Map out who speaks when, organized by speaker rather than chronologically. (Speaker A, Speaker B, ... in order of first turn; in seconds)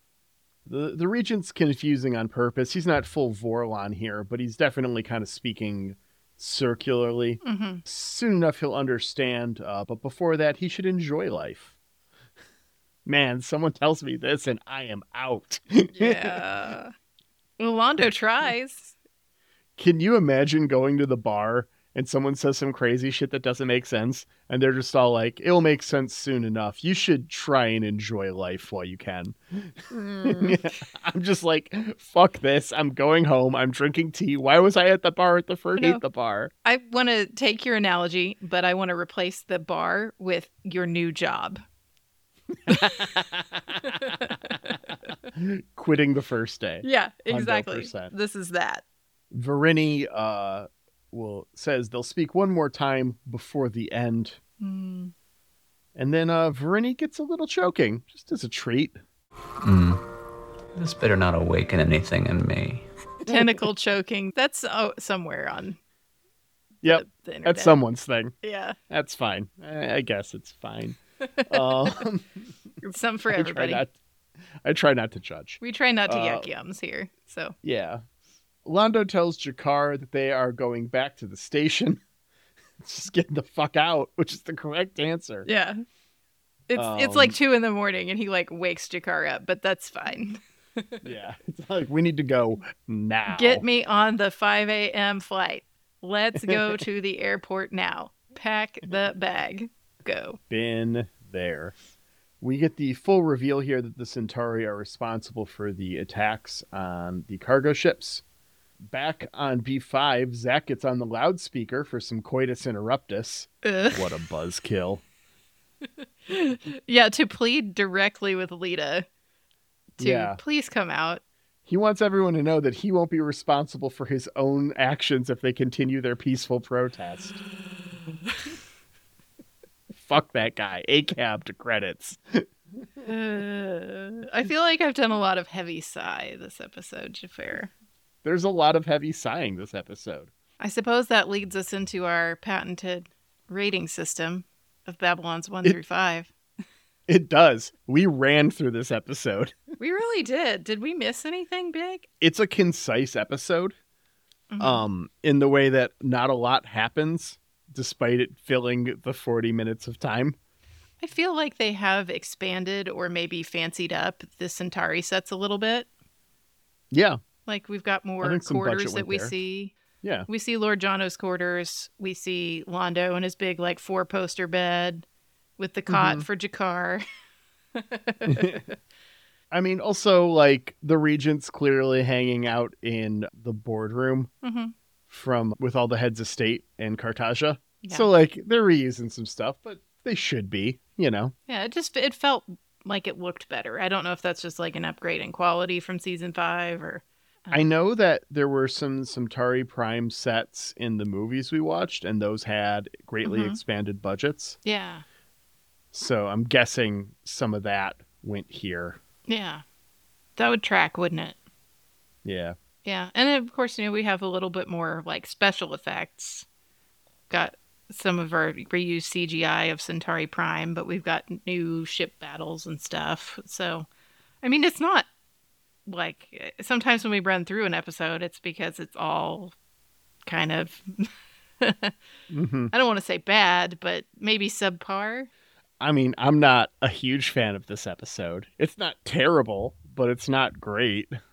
Speaker A: 0.7-11.8, 13.1-16.4, 19.8-36.5, 42.7-44.7, 45.3-48.1, 49.3-54.4, 56.0-59.0, 66.8-68.3, 68.9-72.5, 73.3-74.0, 74.6-76.5, 77.6-78.0, 78.7-82.0, 82.8-85.5, 86.8-87.4, 91.0-93.6, 96.4-96.8, 100.5-101.7, 102.4-108.2, 108.9-115.0, 120.0-120.4, 121.7-127.4, 129.9-132.5, 138.2-140.3, 147.1-149.6, 152.2-153.8, 154.6-160.4, 166.9-167.2, 168.2-169.4, 170.0-170.3, 175.9-176.3, 178.3-178.6, 179.5-184.3, 185.1-191.3, 197.5-204.6, 205.9-209.0, 212.2-212.6, 232.3-232.7, 235.8-241.2
Speaker B: 7.4-7.8, 16.0-16.9, 17.6-18.9, 30.0-30.6, 35.8-36.0, 36.6-41.6, 42.7-43.1, 43.8-44.8, 46.8-48.8, 54.6-55.1, 63.3-65.8, 66.8-67.8, 68.4-68.8, 72.8-73.8, 75.6-77.6, 85.5-85.8, 86.7-91.0, 93.3-100.4, 113.6-114.1, 116.3-119.1, 120.0-121.2, 133.1-137.7, 140.6-146.3, 149.8-152.1, 154.5-154.8, 161.0-165.9, 167.5-169.8, 170.3-175.1, 175.6-177.0, 177.8-178.7, 184.4-184.7, 187.8-188.1, 191.5-197.7, 203.2-203.6, 204.7-205.0, 209.3-209.6, 210.4-211.4, 212.8-216.5, 217.3-223.9, 224.4-225.1, 225.9-229.6, 230.3-231.1, 231.6-231.9, 232.7-235.3
Speaker C: 59.6-60.0, 60.8-62.9